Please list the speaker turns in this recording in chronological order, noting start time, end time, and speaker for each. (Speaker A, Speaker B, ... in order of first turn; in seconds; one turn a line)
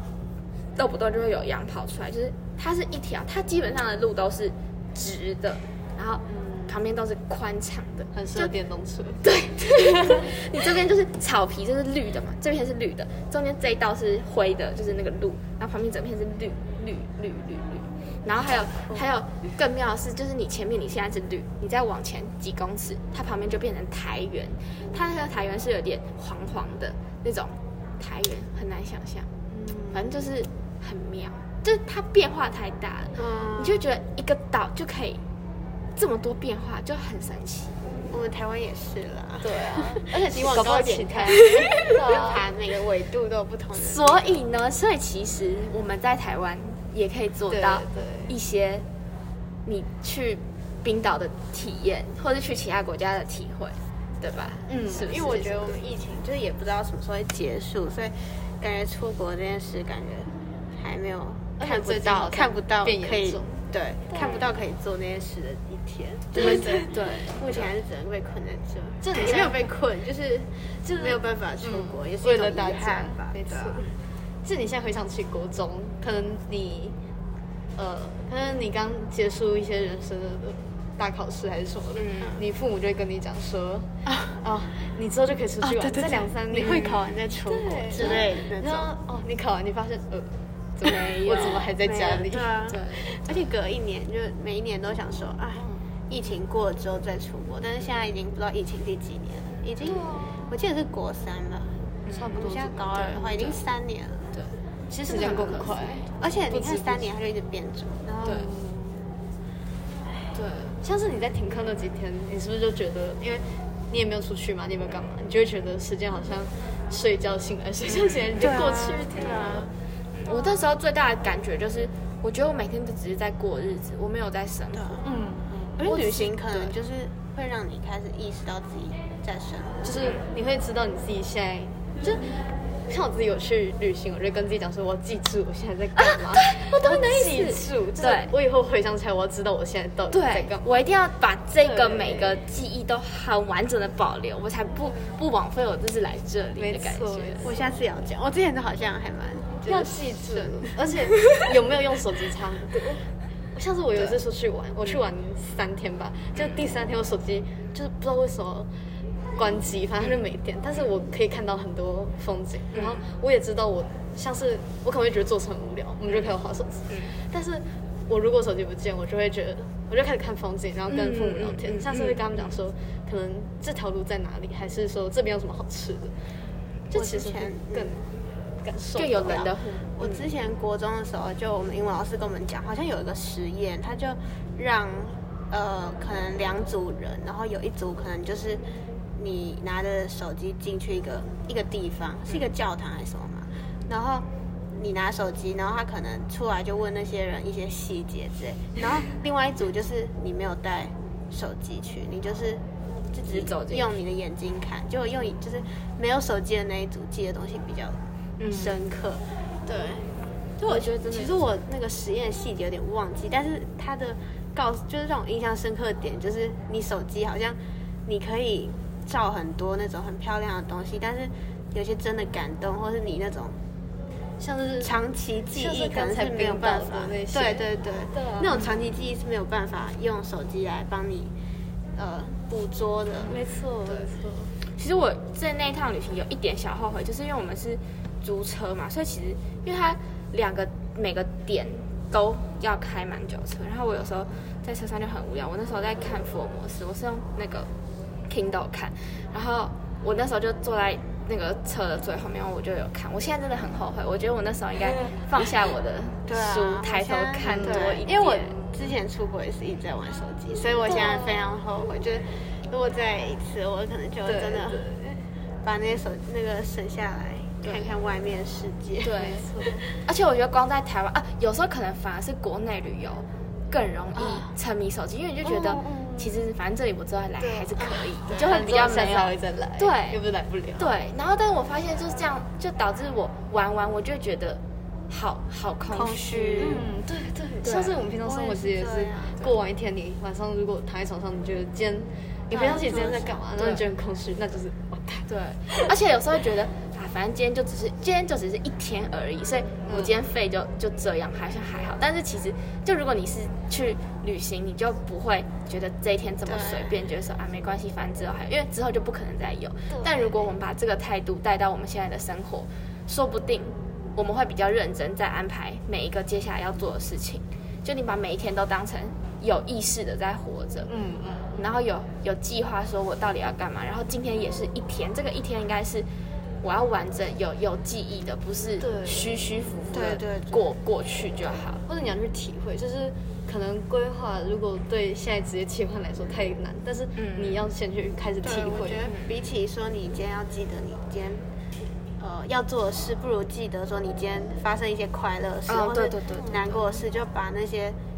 Speaker A: 0.8-8.5
Speaker B: 6.3-6.8
Speaker B: 8.1-9.2
Speaker A: 9.2-29.3
Speaker C: 18.4-19.1
Speaker B: 29.5-30.3
Speaker A: 29.9-35.2
Speaker C: 33.1-33.8
Speaker A: 36.0-37.8
Speaker C: 38.1-44.4
Speaker B: 39.4-42.4
Speaker A: 40.1-42.2
Speaker A: 43.8-48.8
Speaker B: 47.5-48.4
Speaker A: 49.6-55.8
Speaker B: 54.7-55.2
Speaker C: 55.0-73.9
Speaker B: 61.6-64.5
Speaker A: 64.1-64.5
Speaker A: 66.3-67.7
Speaker B: 66.3-66.9
Speaker B: 69.0-69.7
Speaker B: 70.8-77.0
Speaker B: 77.8-83.9
Speaker A: 81.9-82.4
Speaker C: 84.0-84.4
Speaker B: 84.4-93.2
Speaker A: 85.7-87.0
Speaker C: 85.9-88.9
Speaker A: 87.9-88.2
Speaker A: 90.8-93.0
Speaker C: 91.8-104.3
Speaker B: 95.5-95.8
Speaker B: 99.8-100.4
Speaker A: 102.0-102.5
Speaker B: 102.1-103.6
Speaker B: 104.9-107.1
Speaker A: 105.1-106.0
Speaker C: 106.2-108.5
Speaker A: 108.2-108.5
Speaker B: 108.2-109.1
Speaker A: 110.3-110.8
Speaker B: 110.8-119.7
Speaker C: 118.4-119.7
Speaker A: 120.1-125.0
Speaker C: 124.7-125.0
Speaker B: 125.0-126.3
Speaker C: 125.8-129.9
Speaker A: 125.9-126.7
Speaker B: 129.8-140.6
Speaker A: 136.0-138.3
Speaker A: 140.1-147.5
Speaker B: 141.6-142.4
Speaker C: 144.9-145.2
Speaker B: 146.6-147.5
Speaker C: 147.4-151.2
Speaker B: 149.6-158.7
Speaker A: 156.3-156.7
Speaker B: 159.3-176.1
Speaker A: 162.7-163.0
Speaker A: 166.1-166.3
Speaker A: 166.9-167.1
Speaker A: 170.9-172.6
Speaker B: 176.9-178.1
Speaker C: 176.9-178.0
Speaker B: 178.6-179.4
Speaker A: 178.9-180.3
Speaker C: 179.3-188.6
Speaker C: 189.2-210.1
Speaker A: 203.2-203.9
Speaker A: 208.4-208.8
Speaker A: 210.6-211.5
Speaker C: 210.6-223.6
Speaker B: 224.4-224.9
Speaker C: 224.8-231.3
Speaker B: 225.5-228.6
Speaker C: 231.9-233.4
Speaker B: 233.2-234.5
Speaker A: 234.7-247.7
Speaker A: 248.3-258.5
Speaker C: 256.3-264.8
Speaker B: 257.4-258.9
Speaker B: 260.9-261.3
Speaker B: 264.2-265.3
Speaker C: 265.6-270.0
Speaker A: 267.6-267.9
Speaker A: 269.0-269.5
Speaker B: 269.1-269.8
Speaker A: 270.0-280.2
Speaker B: 274.1-274.5
Speaker B: 275.4-276.4
Speaker B: 277.4-280.9
Speaker C: 277.8-279.0
Speaker A: 280.8-286.8
Speaker C: 285.9-286.8
Speaker B: 286.6-295.9
Speaker A: 287.6-288.0
Speaker C: 288.2-289.4
Speaker A: 292.5-292.9
Speaker C: 292.5-293.4
Speaker A: 293.6-293.8
Speaker A: 295.3-320.9
Speaker B: 299.9-300.1
Speaker C: 306.4-306.9
Speaker B: 309.9-310.5
Speaker B: 320.9-321.6
Speaker A: 321.5-326.1
Speaker A: 326.6-331.8
Speaker B: 328.8-329.4
Speaker C: 329.9-330.7
Speaker B: 331.9-339.0
Speaker A: 337.1-337.7
Speaker C: 338.4-341.4
Speaker A: 339.0-339.3
Speaker C: 342.2-348.0
Speaker A: 345.7-347.0